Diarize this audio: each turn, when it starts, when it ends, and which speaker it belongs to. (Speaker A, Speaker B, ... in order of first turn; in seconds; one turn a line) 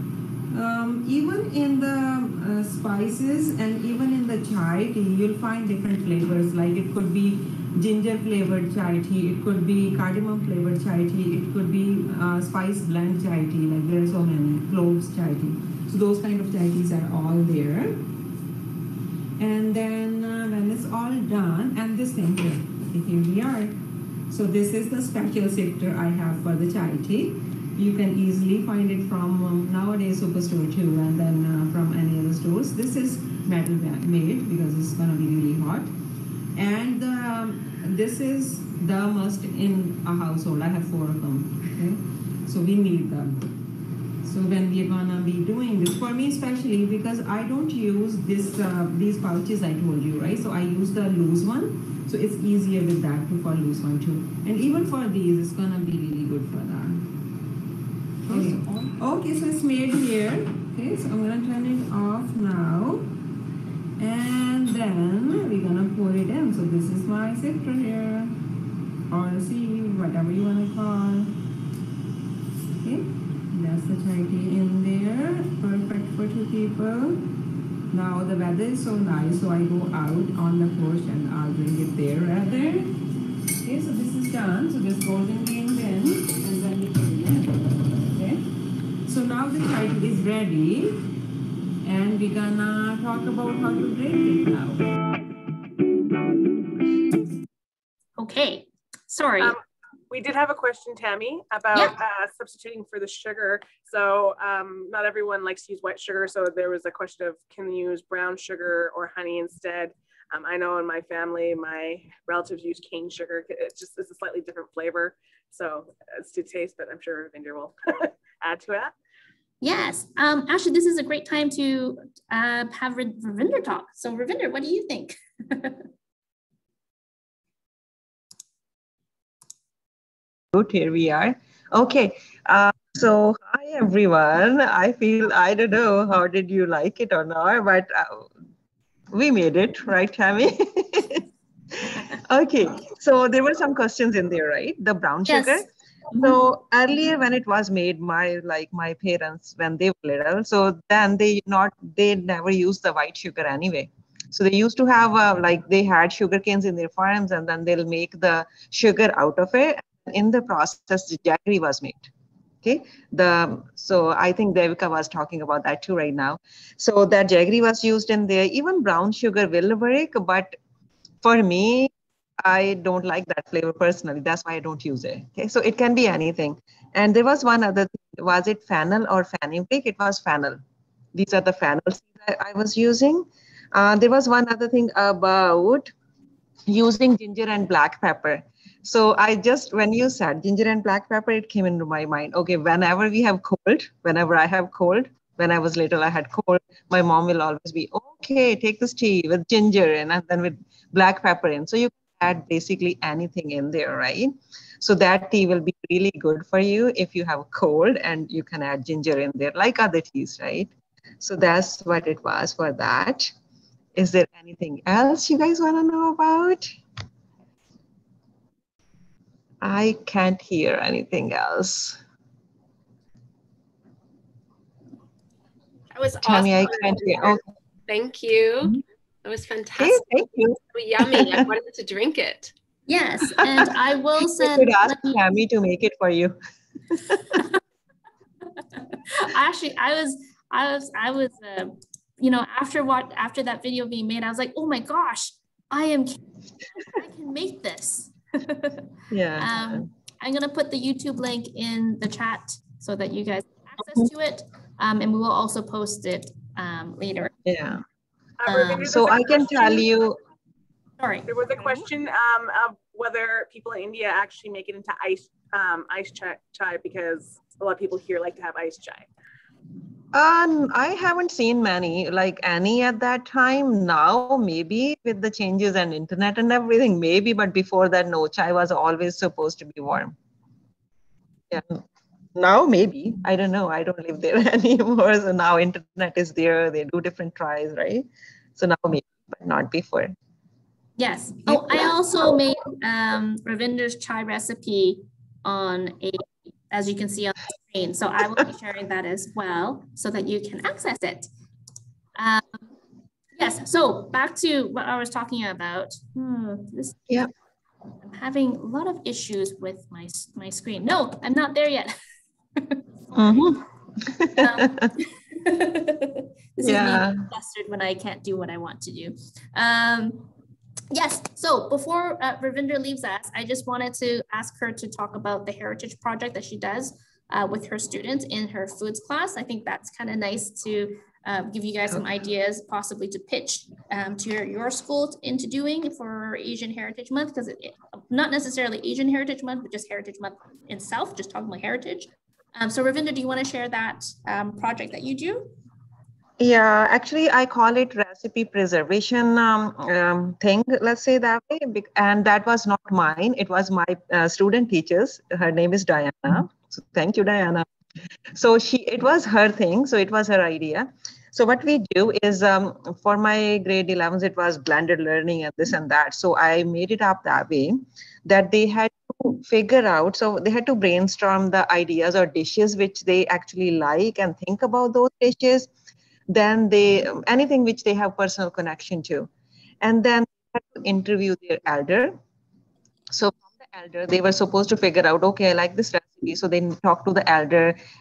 Speaker A: 0.5-18.0
Speaker A: 19.4-23.7
Speaker A: 24.3-35.9
Speaker A: 36.5-43.4
Speaker A: 44.2-57.0
Speaker A: 58.3-63.0
Speaker A: 64.0-68.3
Speaker A: 69.1-71.3
Speaker A: 72.8-77.2
Speaker A: 77.9-82.9
Speaker A: 83.6-88.4
Speaker A: 89.1-91.0
Speaker A: 91.8-94.8
Speaker B: 98.2-99.5
Speaker C: 100.1-118.9
Speaker B: 119.6-125.8
Speaker A: 130.5-138.3
Speaker A: 139.1-141.2
Speaker A: 142.2-162.1
Speaker B: 145.3-146.4
Speaker A: 162.6-170.6
Speaker A: 171.2-171.9
Speaker A: 172.4-180.6
Speaker A: 181.1-185.9
Speaker A: 186.7-213.3
Speaker A: 213.9-216.7
Speaker A: 219.6-222.0
Speaker D: 225.9-230.1
Speaker A: 226.2-227.4
Speaker A: 229.8-231.5
Speaker D: 230.7-232.5
Speaker B: 232.9-235.2
Speaker A: 234.4-236.3
Speaker A: 237.1-237.4
Speaker B: 239.1-246.2
Speaker B: 246.7-257.3
Speaker A: 249.1-249.9
Speaker A: 257.4-257.8
Speaker C: 258.4-259.9
Speaker B: 258.4-259.9
Speaker A: 258.8-260.1
Speaker B: 261.0-261.8
Speaker C: 261.3-269.1
Speaker A: 270.1-280.1
Speaker A: 281.5-281.8
Speaker A: 282.4-290.1
Speaker B: 291.0-301.3
Speaker B: 302.1-302.7
Speaker B: 303.4-307.1
Speaker B: 308.0-311.9
Speaker B: 312.6-313.5
Speaker A: 313.1-314.9
Speaker B: 314.4-320.3
Speaker A: 316.6-317.2
Speaker B: 320.9-345.5
Speaker A: 346.4-357.6
Speaker A: 358.3-375.7
Speaker A: 376.3-379.3
Speaker A: 379.8-382.2
Speaker A: 383.1-387.8